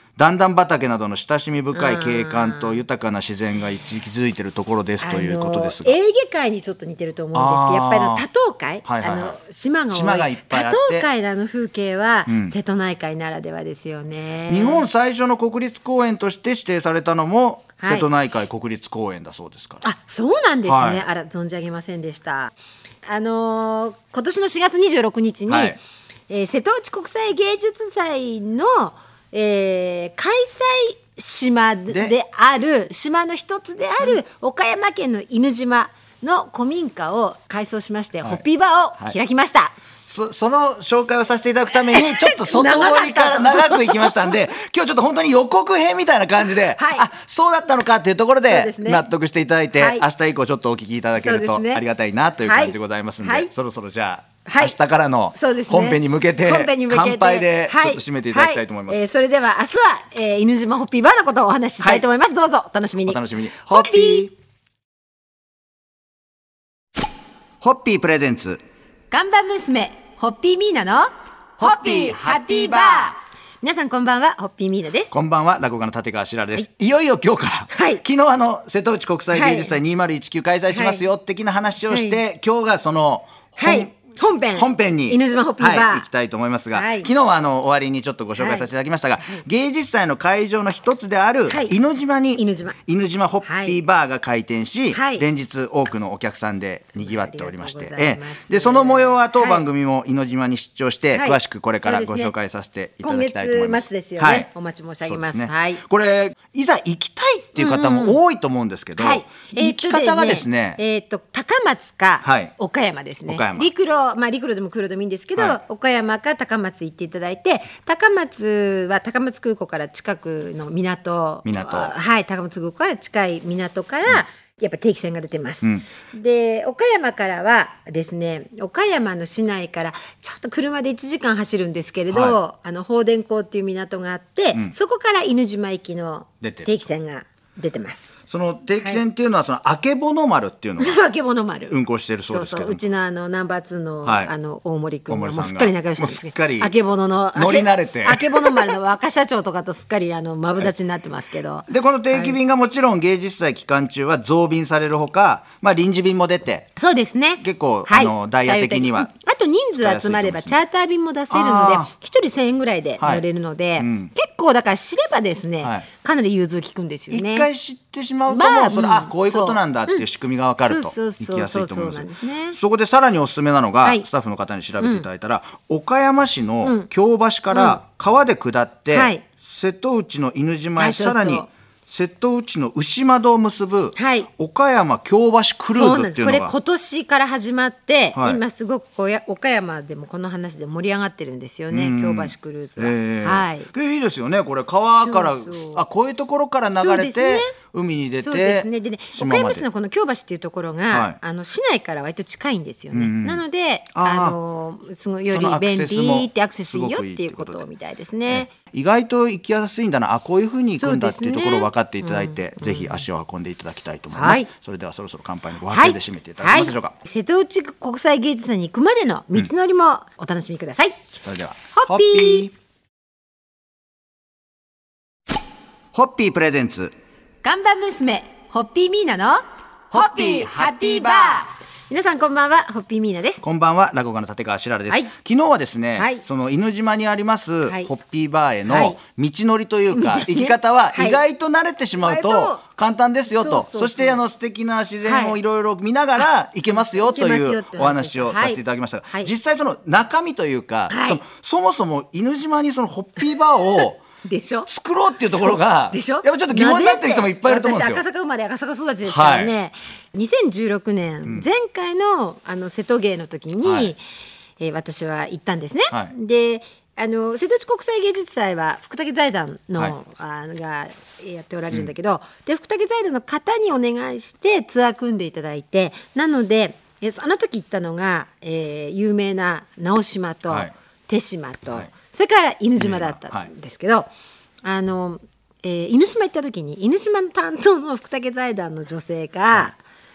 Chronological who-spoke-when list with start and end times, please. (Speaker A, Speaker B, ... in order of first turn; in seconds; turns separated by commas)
Speaker A: 0.2-6.0, Speaker B: 1.7-2.8, Speaker B: 5.0-14.9, Speaker A: 7.3-8.2, Speaker A: 8.8-9.4, Speaker A: 9.9-11.1, Speaker A: 12.3-12.6, Speaker A: 14.5-19.8, Speaker B: 17.8-18.1, Speaker B: 19.8-39.7, Speaker A: 20.7-21.0, Speaker A: 25.5-25.8, Speaker A: 40.1-59.0, Speaker B: 41.9-44.3, Speaker B: 46.7-47.1, Speaker B: 48.5-49.0, Speaker B: 49.8-50.0, Speaker B: 51.2-51.8, Speaker B: 52.4-53.5, Speaker B: 54.5-54.8, Speaker B: 55.3-64.3, Speaker A: 61.8-62.0, Speaker A: 63.1-64.3, Speaker A: 67.6-68.6, Speaker B: 69.1-75.1, Speaker A: 75.1-104.5, Speaker B: 77.7-78.0, Speaker B: 79.3-79.8, Speaker B: 80.7-81.0, Speaker B: 81.9-82.2, Speaker B: 83.6-86.1, Speaker B: 86.7-87.1, Speaker B: 88.4-89.5, Speaker B: 91.5-91.8, Speaker B: 92.4-92.8, Speaker B: 93.4-93.8, Speaker B: 94.9-95.3, Speaker B: 97.0-99.6, Speaker B: 101.1-102.3, Speaker B: 103.0-105.8, Speaker A: 105.1-110.8, Speaker B: 107.6-108.2, Speaker B: 109.0-138.1, Speaker A: 112.2-112.5, Speaker A: 113.3-113.7, Speaker A: 121.5-121.9, Speaker A: 132.1-132.4, Speaker A: 136.4-136.7, Speaker A: 138.3-141.0, Speaker B: 140.8-152.4, Speaker A: 141.7-142.8, Speaker A: 144.0-144.3, Speaker A: 145.1-146.7, Speaker A: 147.3-148.8, Speaker A: 151.7-156.7, Speaker B: 156.8-167.5, Speaker A: 157.4-159.1, Speaker A: 159.8-160.6, Speaker A: 161.3-161.9, Speaker A: 163.0-163.2, Speaker A: 163.8-164.1, Speaker A: 167.1-186.5, Speaker B: 168.3-170.1, Speaker B: 170.6-172.6, Speaker B: 174.8-175.1, Speaker B: 176.6-176.9, Speaker B: 177.5-177.8, Speaker B: 178.9-179.2, Speaker B: 180.8-181.5, Speaker B: 184.0-184.3, Speaker B: 185.7-193.7, Speaker A: 188.2-188.4, Speaker A: 191.7-199.7, Speaker B: 195.0-195.9, Speaker B: 196.8-197.5, Speaker B: 198.2-208.5, Speaker A: 200.9-201.2, Speaker A: 202.9-204.4, Speaker A: 205.3-207.6, Speaker A: 208.3-216.9, Speaker B: 210.8-213.0, Speaker B: 214.1-214.5, Speaker B: 215.7-221.1, Speaker A: 221.2-222.5, Speaker B: 221.7-222.5, Speaker A: 225.9-226.9, Speaker B: 227.4-233.4, Speaker A: 233.4-254.0, Speaker B: 236.0-236.2, Speaker B: 238.7-239.0, Speaker B: 239.9-241.2, Speaker B: 242.0-242.6, Speaker B: 243.3-244.2, Speaker B: 245.0-245.4, Speaker B: 246.2-249.3, Speaker B: 250.9-251.2, Speaker B: 254.2-254.7, Speaker A: 254.7-258.0, Speaker B: 255.3-264.0, Speaker A: 259.0-259.5, Speaker A: 263.6-263.9, Speaker B: 264.6-284.1, Speaker A: 282.8-283.5, Speaker B: 284.6-289.8